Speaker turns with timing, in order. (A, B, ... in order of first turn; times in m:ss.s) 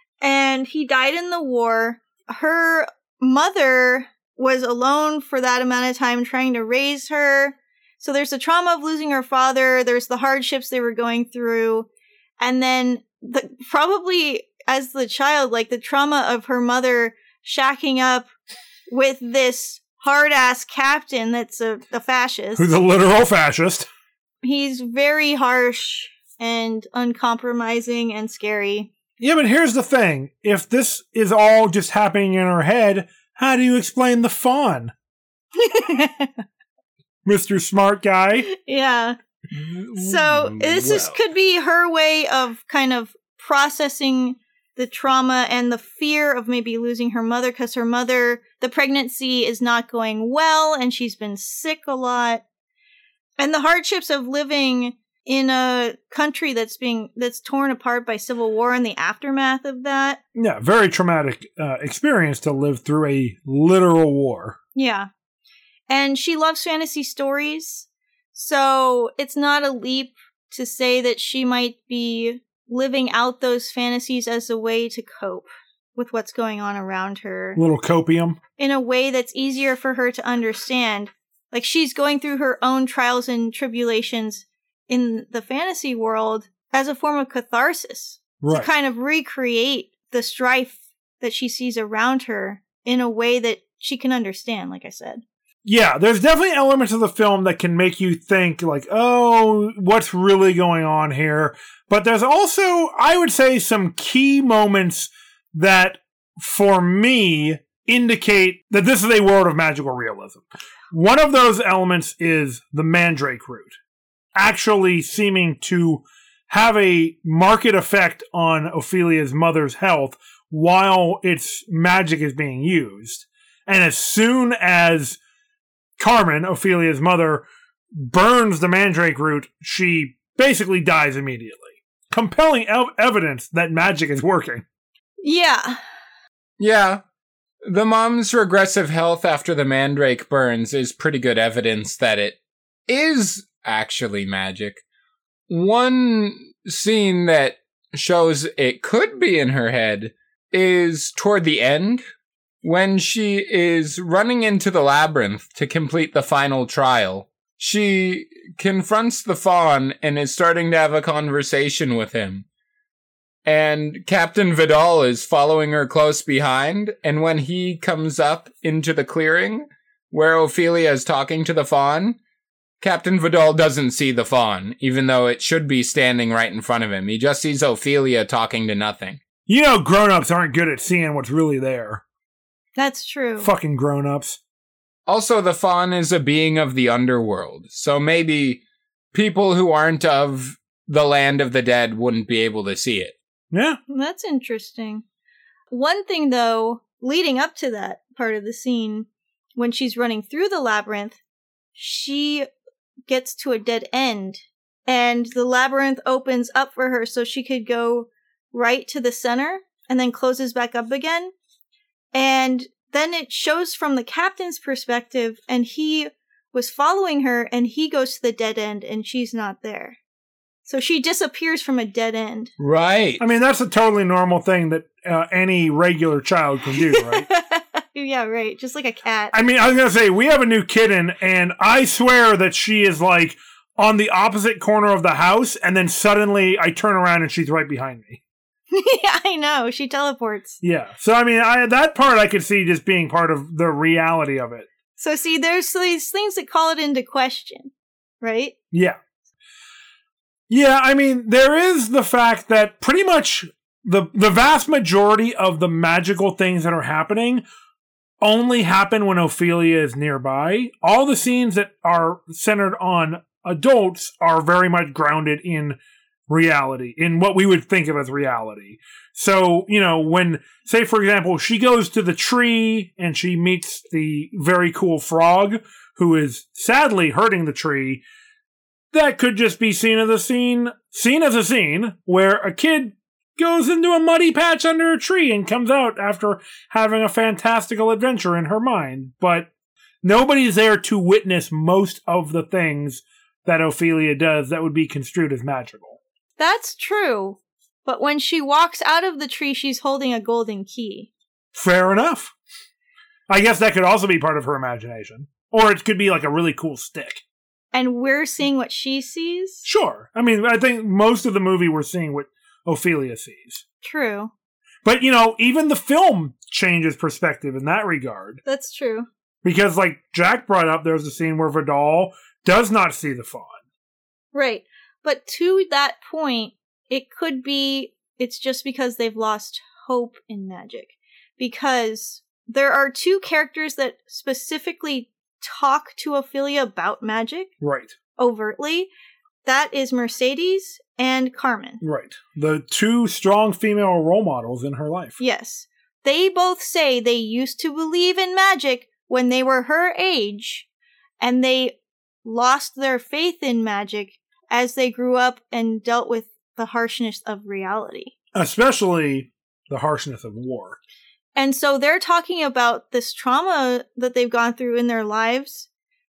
0:00.2-0:11.9 A
0:12.4-0:18.3 A
0:18.9-0:22.7 A
0:22.6-0:23.9 B
0:24.4-0:28.9 A
0:29.2-0:34.9 B
0:35.6-0:36.4 A
0:37.2-0:38.5 B
0:38.5-0:39.2 A
0:39.5-0:41.1 B
0:40.0-0:52.4 A
0:53.4-1:00.2 A
1:00.3-1:04.6 B
1:04.7-1:05.1 A
1:05.9-1:17.6 A
1:17.6-1:18.4 B
1:18.6-1:35.2 A
1:28.4-1:28.7 B
1:35.6-1:53.8 B
1:54.3-2:05.2 B
2:06.0-2:14.6 B
2:15.2-2:15.8 A
2:16.6-2:17.0 C
2:17.6-2:24.8 C
2:25.5-2:32.0 C
2:32.6-2:42.4 C
2:43.4-2:52.2 C
2:52.8-2:59.2 C
2:59.5-3:02.0 B
3:02.8-3:03.5 A
3:03.4-3:04.4 B
3:05.1-3:08.6 C
3:09.1-3:13.2 C
3:13.5-3:13.8 B
3:13.9-3:15.0 A
3:15.7-3:21.2 A
3:21.7-3:22.5 A
3:23.1-3:31.3 A
3:32.1-3:40.0 A
3:40.6-3:42.5 A
3:42.6-3:43.2 C
3:43.2-3:47.3 B
3:46.8-3:49.3 A
3:49.3-3:58.2 B
3:58.7-4:00.6 A
4:00.6-4:04.7 B
4:05.0-4:08.5 A
4:08.7-4:09.0 B
4:10.5-4:17.4 B
4:18.2-4:25.8 B
4:26.3-4:38.0 B
4:38.9-4:49.5 B
4:50.0-4:56.0 B
4:56.4-5:01.1 A
5:01.5-5:02.3 B
5:03.3-5:07.2 B
5:07.7-5:09.7 A
5:09.6-5:13.6 B
5:13.8-5:14.3 A
5:14.8-5:18.4 B
5:18.4-5:19.1 A
5:19.4-5:23.6 B
5:24.3-5:37.5 A
5:37.6-5:38.0 B
5:38.2-5:38.9 A
5:39.4-5:41.8 A
5:41.8-5:45.2 B
5:45.2-5:50.7 A
5:51.2-5:58.1 A
5:58.3-6:00.8 B
6:01.4-6:05.7 A